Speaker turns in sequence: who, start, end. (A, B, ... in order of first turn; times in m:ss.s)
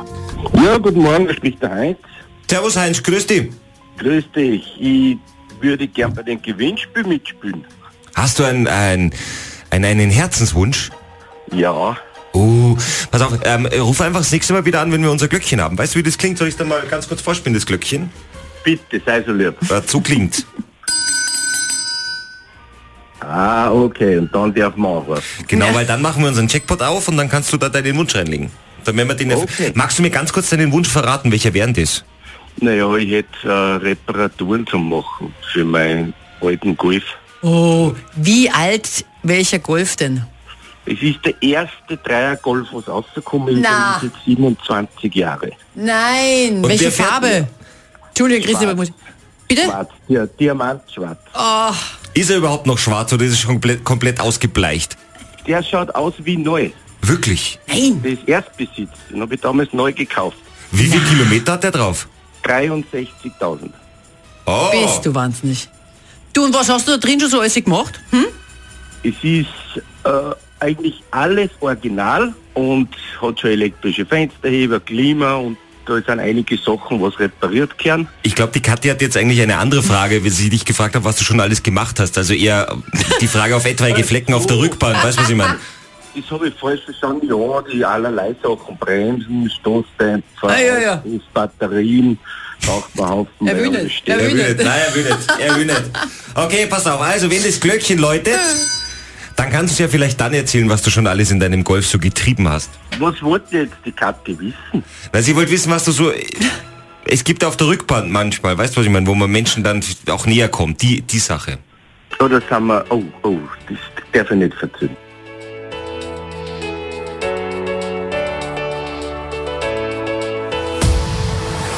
0:00.5-0:02.0 A
0:02.5-0:03.6 B
0:04.0-0:07.7 A
0:08.2-0:09.2 B
0:09.7-0:10.9 B
0:11.5-0:12.0 A
0:12.3-0:18.1 B
0:18.6-0:19.6 A
0:19.7-0:20.4 B
0:23.2-0:25.3 A
0:25.4-0:32.0 B
0:29.3-0:29.8 A
0:32.6-0:37.1 A
0:37.4-0:40.3 C
0:40.8-0:45.6 A
0:43.5-0:44.0 C
0:45.8-0:47.5 C
0:46.6-0:47.4 B
0:48.1-0:48.9 C
0:48.3-0:48.8 A
0:49.5-0:49.8 C
0:49.6-0:51.3 A
0:51.3-0:51.9 C
0:52.1-0:55.0 B
0:55.4-0:56.8 A
0:57.0-0:57.6 B
0:57.7-0:58.0 C
0:58.0-1:00.5 A
1:00.7-1:02.1 B
1:02.4-1:03.8 A
1:04.4-1:05.0 B
1:04.7-1:05.7 C
1:06.3-1:08.3 C
1:09.0-1:18.1 A
1:18.2-1:25.6 B
1:24.2-1:24.8 A
1:26.1-1:34.2 A
1:30.5-1:31.0 C
1:33.4-1:35.4 C
1:34.1-1:38.6 B
1:39.4-1:42.8 B
1:42.9-1:44.8 A
1:45.1-1:46.5 B
1:47.0-1:51.6 B
1:52.2-1:55.0 A